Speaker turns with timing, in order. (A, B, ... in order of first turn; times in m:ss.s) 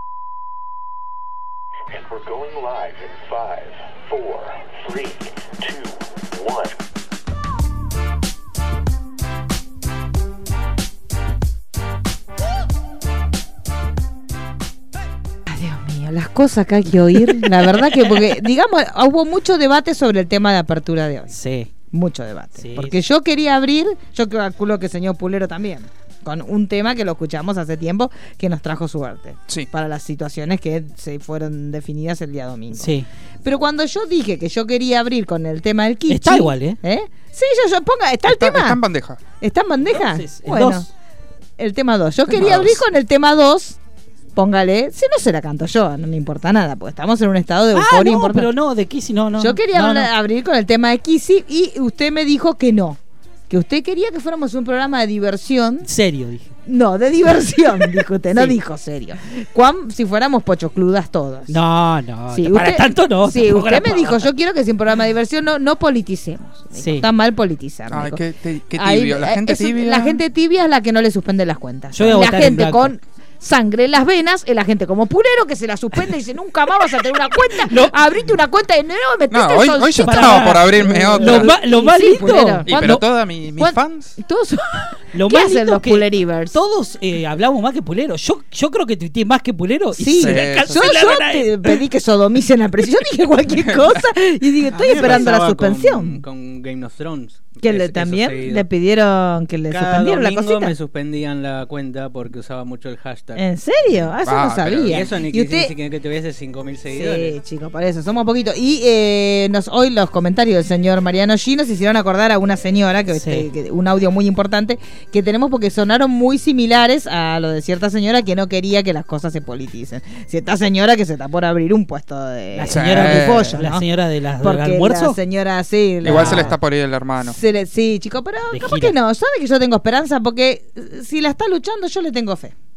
0:01.9-0:06.8 A
0:15.5-0:21.3 B
0:21.3-0:21.7 C
0:21.9-0:32.9 B
0:22.6-0:23.0 C
0:32.8-0:33.1 C
0:33.4-0:38.8 B
0:36.1-0:36.8 C
0:38.3-0:39.2 D
0:39.4-0:40.9 B
0:39.9-0:40.9 C
0:41.6-0:43.8 B
0:42.4-0:42.8 C
0:44.4-0:48.5 B
0:47.7-0:50.1 C
0:49.4-0:53.0 B
0:53.5-0:55.9 B
0:55.8-0:56.5 C
0:56.7-1:01.6 B
1:01.5-1:04.3 C
1:02.3-1:08.2 B
1:06.8-1:07.1 C
1:07.9-1:10.2 D
1:08.8-1:26.6 B
1:11.9-1:12.9 C
1:17.7-1:18.0 C
1:19.3-1:21.6 D
1:20.0-1:23.0 C
1:22.6-1:24.2 D
1:25.1-1:31.8 C
1:30.0-1:36.2 B
1:30.2-1:31.0 D
1:33.6-1:34.0 D
1:34.7-1:38.7 E
1:37.6-1:40.7 B
1:39.7-1:43.4 E
1:43.4-1:45.7 B
1:44.2-1:45.0 D
1:44.9-1:47.4 E
1:46.9-2:03.8 B
1:53.1-1:53.5 C
2:02.6-2:05.2 C
2:02.7-2:03.6 D
2:04.4-2:06.6 B
2:06.0-2:07.4 D
2:06.0-2:06.6 C
2:07.2-2:12.5 B
2:08.5-2:09.0 C